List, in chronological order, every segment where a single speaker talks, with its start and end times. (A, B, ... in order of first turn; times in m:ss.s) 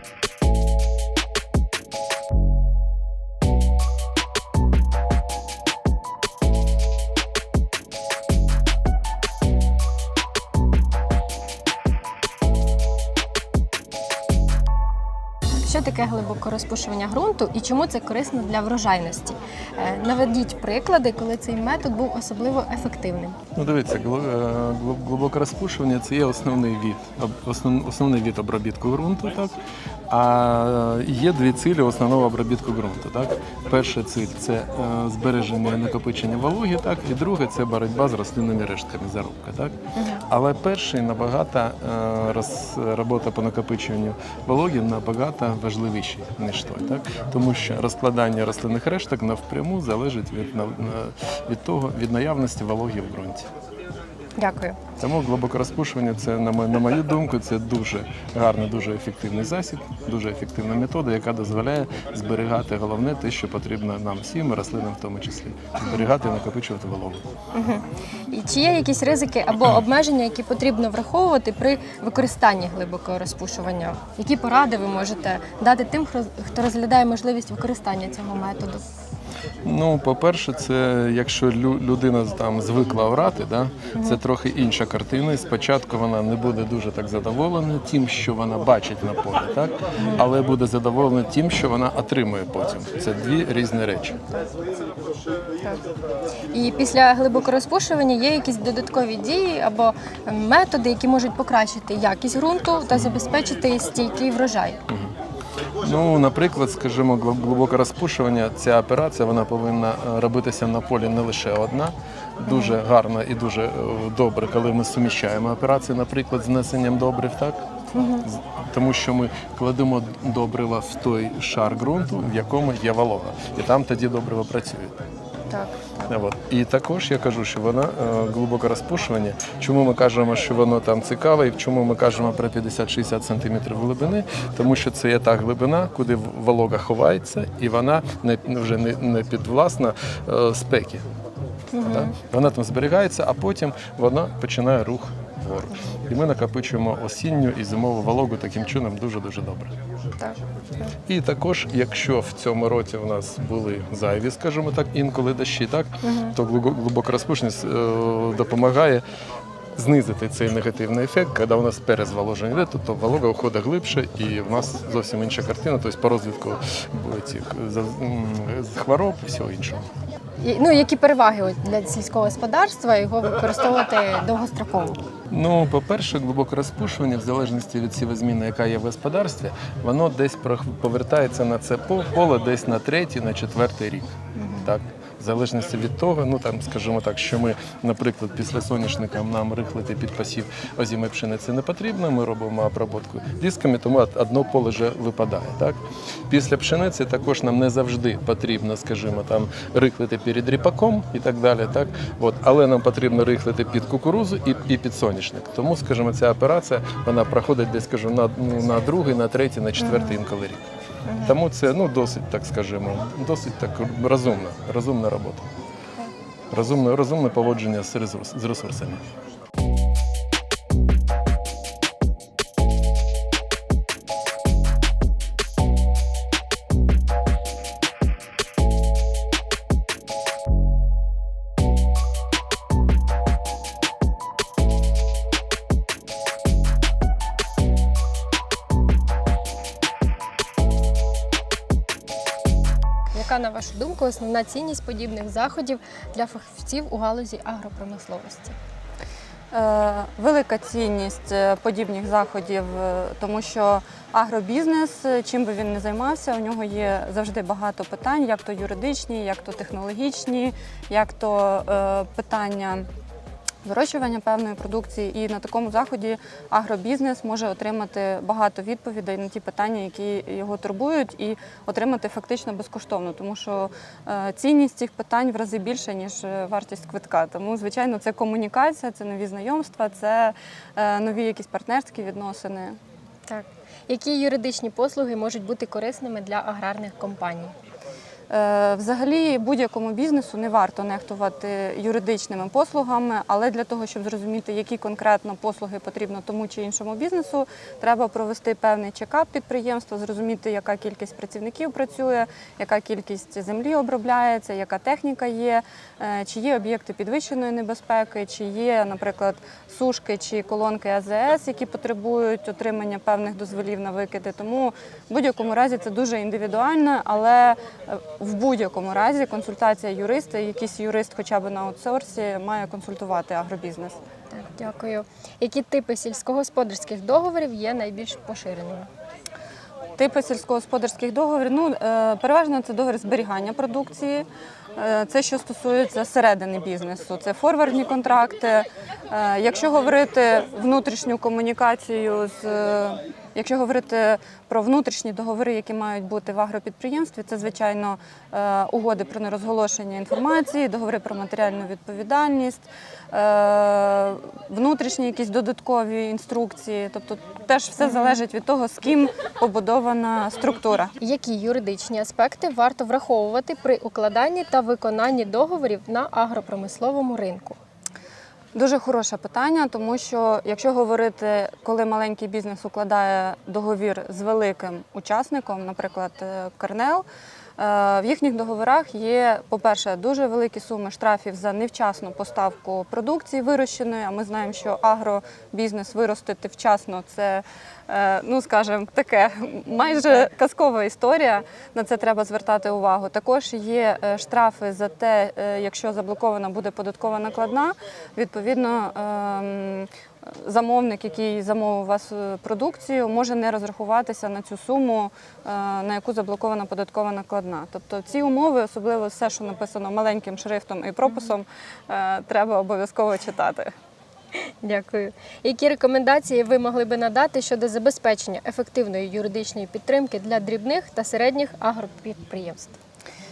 0:15.5-0:23.4 A
0:23.6-0:29.6 B
0:30.1-0:39.7 B
0:40.0-0:40.2 A
0:40.3-0:53.5 B
0:54.4-0:54.8 A
0:55.0-1:07.2 B
1:05.8-1:06.1 A
1:07.6-1:18.8 A
1:19.6-1:34.4 B
1:24.0-1:24.2 A
1:36.5-1:44.8 A
1:45.8-1:57.6 B
1:52.5-1:52.8 A
1:57.9-1:58.3 A
1:58.2-2:05.0 B
2:05.5-2:06.1 A
2:06.1-2:21.0 B
2:21.7-2:22.1 A
2:21.8-2:29.7 B
2:30.2-2:30.9 A
2:31.1-2:39.0 B
2:36.0-2:36.4 A
2:39.8-2:49.9 B
2:50.4-2:55.0 A
2:55.3-3:04.1 B
3:04.4-3:04.7 A
3:04.6-3:30.7 B
3:29.8-3:30.1 A
3:31.1-3:31.4 A
3:31.2-3:35.5 B
3:36.5-3:39.0 B
4:03.1-4:08.6 A
4:09.5-4:22.9 C
4:23.6-4:42.8 C
4:43.3-4:47.5 A
4:48.3-5:24.0 C
5:24.3-5:28.9 A
5:30.0-6:00.9 C
5:57.8-5:58.1 A
6:01.0-6:07.6 A
6:08.5-6:17.0 C
6:17.6-6:53.7 C
6:54.6-7:02.8 A